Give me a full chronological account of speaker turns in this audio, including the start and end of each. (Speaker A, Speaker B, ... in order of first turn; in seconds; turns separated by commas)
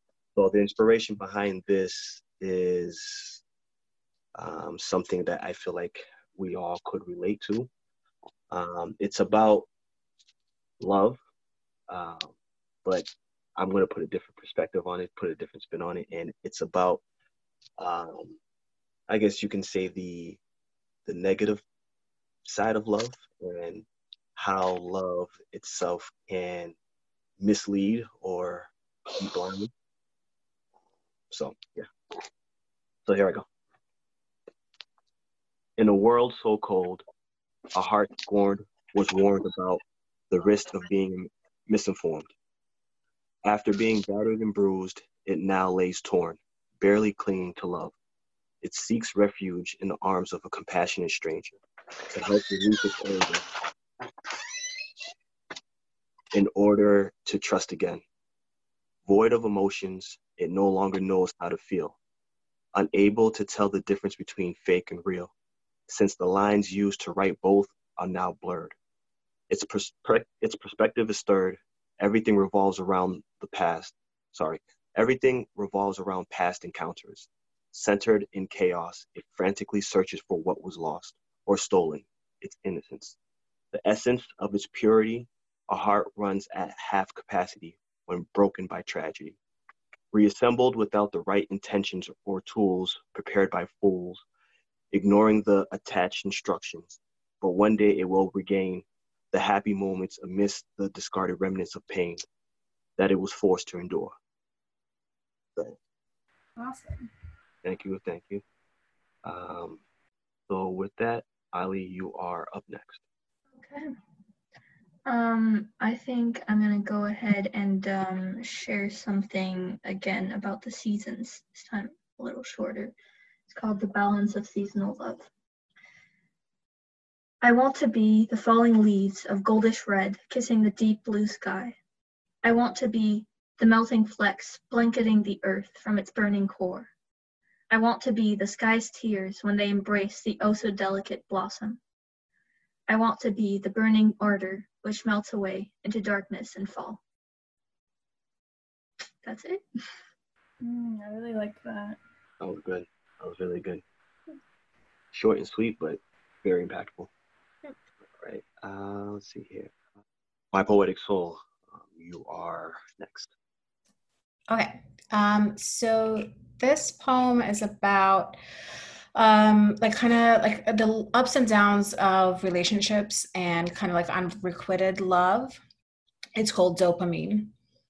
Speaker A: 0.4-3.4, Speaker A: 4.3-7.7, Speaker A: 8.5-9.7, Speaker A: 10.8-11.2, Speaker A: 11.9-12.3, Speaker A: 12.8-17.0, Speaker A: 17.8-18.4, Speaker A: 19.1-20.4, Speaker A: 21.1-21.6, Speaker A: 22.4-26.8, Speaker A: 27.4-29.7, Speaker A: 31.3-31.9, Speaker A: 33.0-33.5, Speaker A: 35.8-37.0, Speaker A: 37.7-42.3, Speaker A: 43.4-47.9, Speaker A: 48.6-53.4, Speaker A: 56.3-58.0, Speaker A: 59.1-62.0, Speaker A: 62.7-65.3, Speaker A: 65.9-68.8, Speaker A: 69.5-83.2, Speaker A: 83.7-89.4, Speaker A: 90.1-94.2, Speaker A: 94.9-102.2, Speaker A: 103.0-104.1, Speaker B: 106.6-107.1, Speaker A: 107.6-108.4, Speaker A: 109.2-109.8, Speaker A: 110.5-113.0, Speaker C: 113.6-113.9, Speaker C: 115.1-122.9, Speaker C: 123.5-125.3, Speaker C: 127.4-131.8, Speaker C: 132.4-136.9, Speaker C: 137.7-141.8, Speaker C: 142.9-147.0, Speaker C: 149.2-149.6, Speaker B: 150.6-152.0, Speaker A: 152.4-153.8, Speaker A: 155.1-157.1, Speaker A: 158.1-159.7, Speaker A: 160.5-163.3, Speaker D: 164.5-168.4, Speaker D: 169.2-175.6, Speaker D: 176.4-177.5